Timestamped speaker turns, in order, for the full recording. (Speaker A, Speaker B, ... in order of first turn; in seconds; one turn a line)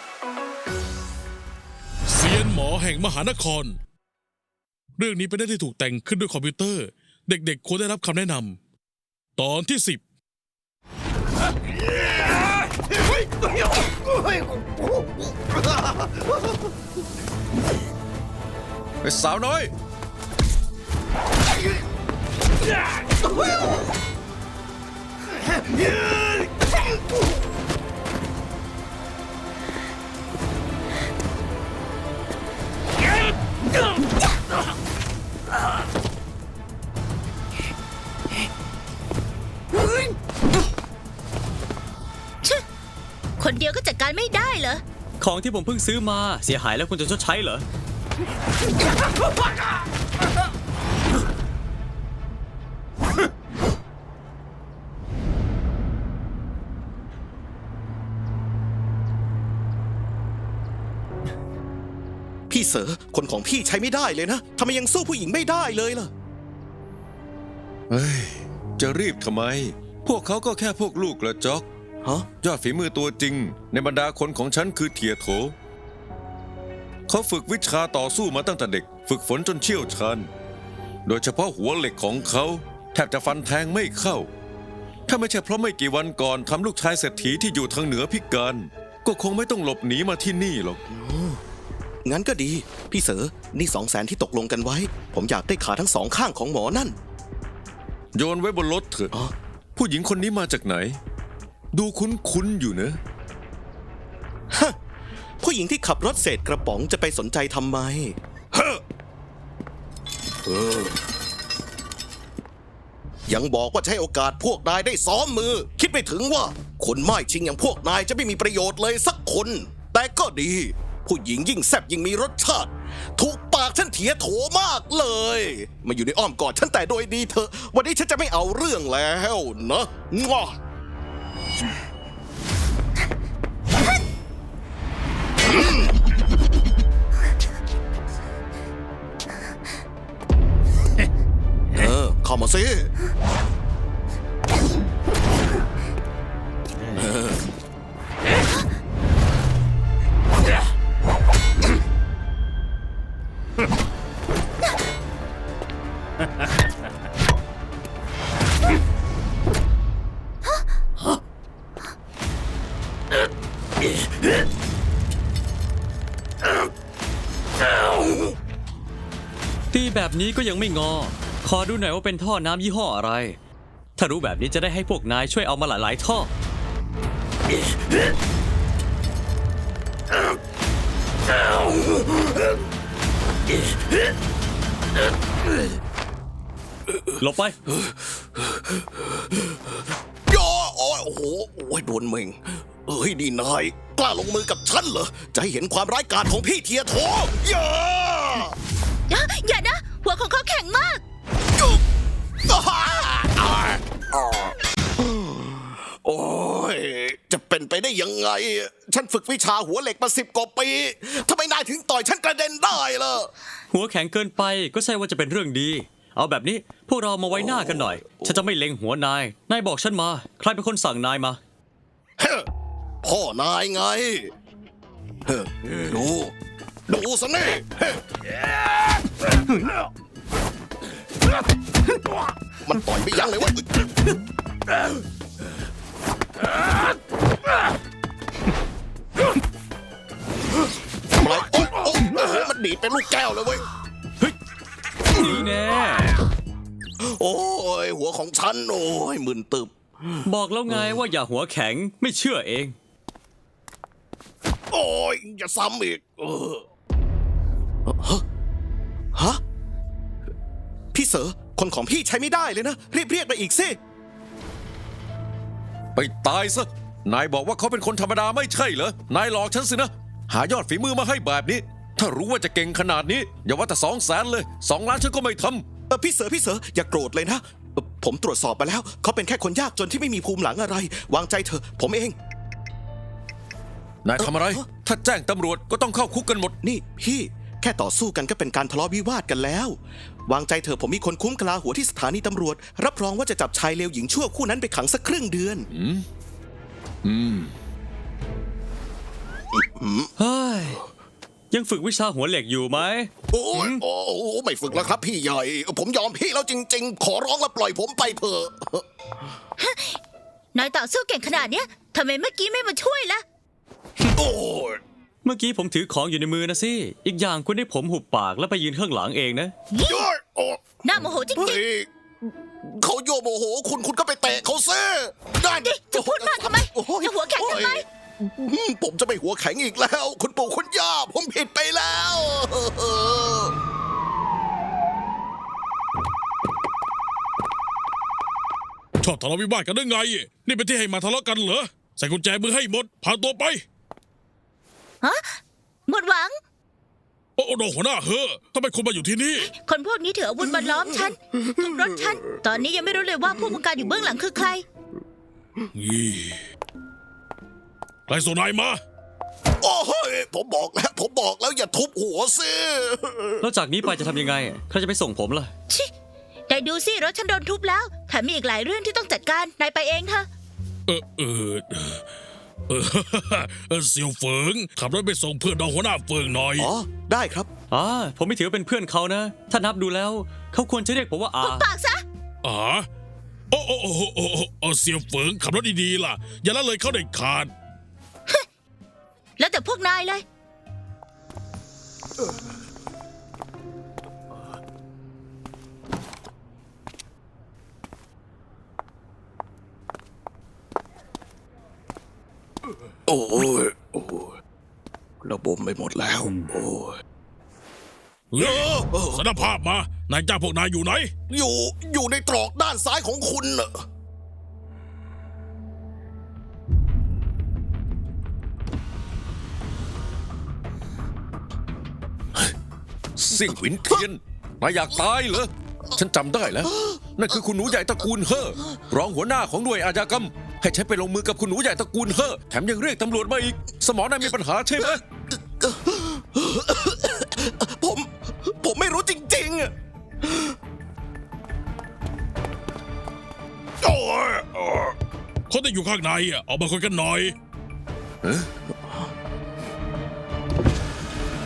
Speaker A: 2.1-3.7
Speaker A: 5.0-8.6
Speaker A: 9.4-10.0
Speaker B: 19.0-19.7
Speaker C: 43.4-44.8
Speaker D: 45.2-47.6
Speaker E: 62.5-66.1
Speaker B: 67.9-71.7
Speaker B: 72.3-75.5
Speaker B: 77.1-80.3
Speaker B: 81.0-84.3
Speaker B: 85.1-90.8
Speaker E: 90.9-91.4
Speaker E: 92.0-97.0
Speaker B: 98.1-99.1
Speaker B: 99.7-101.0
Speaker B: 101.7-103.0
Speaker E: 104.5-104.8
Speaker E: 105.4-108.8
Speaker E: 110.5-110.9
Speaker E: 113.3-130.6
Speaker E: 141.7-142.9
Speaker E: 146.9-147.4
Speaker D: 169.7-173.4
Speaker D: 174.0-176.3
Speaker D: 187.2-187.5
Speaker E: 190.3-198.5
Speaker C: 199.1-201.0
Speaker E: 202.5-204.5
Speaker E: 205.6-213.3
Speaker D: 213.7-221.4
Speaker E: 222.2-222.4
Speaker E: 223.0-224.3
Speaker E: 225.3-226.3
Speaker E: 226.9-228.0
Speaker E: 232.6-233.6
Speaker E: 241.2-243.6
Speaker D: 245.1-246.2
Speaker E: 247.1-250.2
Speaker D: 250.2-252.8
Speaker E: 254.7-256.6
Speaker E: 257.9-258.2
Speaker E: 259.1-259.4
Speaker E: 260.9-263.8
Speaker B: 265.9-275.6
Speaker E: 275.9-282.1
Speaker B: 284.0-286.5
Speaker E: 284.2-284.6
Speaker E: 286.6-295.7
Speaker B: 295.7-296.0
Speaker B: 297.0-297.5
Speaker E: 299.5-300.1
Speaker D: 300.2-300.8
Speaker D: 301.5-303.8
Speaker E: 303.3-308.8
Speaker C: 309.6-310.0
Speaker C: 310.5-313.2
Speaker E: 314.2-314.8
Speaker D: 315.2-319.5
Speaker C: 319.7-320.1
Speaker E: 319.9-320.6
Speaker C: 320.8-321.6
Speaker E: 321.3-321.9
Speaker E: 322.6-333.5
Speaker C: 325.4-327.8
Speaker A: 339.0-343.6
Speaker C: 345.9-346.3
Speaker A: 347.4-349.4
Speaker C: 349.4-354.6
Speaker A: 355.8-356.3
Speaker A: 358.1-358.8
Speaker E: 359.6-363.4
Speaker D: 363.4-365.5
Speaker C: 366.5-370.3
Speaker A: 370.9-372.0
Speaker A: 372.7-376.7
Speaker E: 376.6-377.5
Speaker D: 377.7-381.7
Speaker C: 381.4-382.0
Speaker A: 382.4-382.8
Speaker A: 383.5-387.5
Speaker C: 389.4-390.2
Speaker E: 403.1-404.3
Speaker E: 405.2-407.0
Speaker A: 408.3-411.1
Speaker E: 408.4-409.2
Speaker E: 411.3-413.8
Speaker B: 423.2-435.0
Speaker E: 434.8-439.7
Speaker E: 440.2-440.5
Speaker E: 443.8-444.9
Speaker A: 445.5-447.3
Speaker B: 448.2-448.5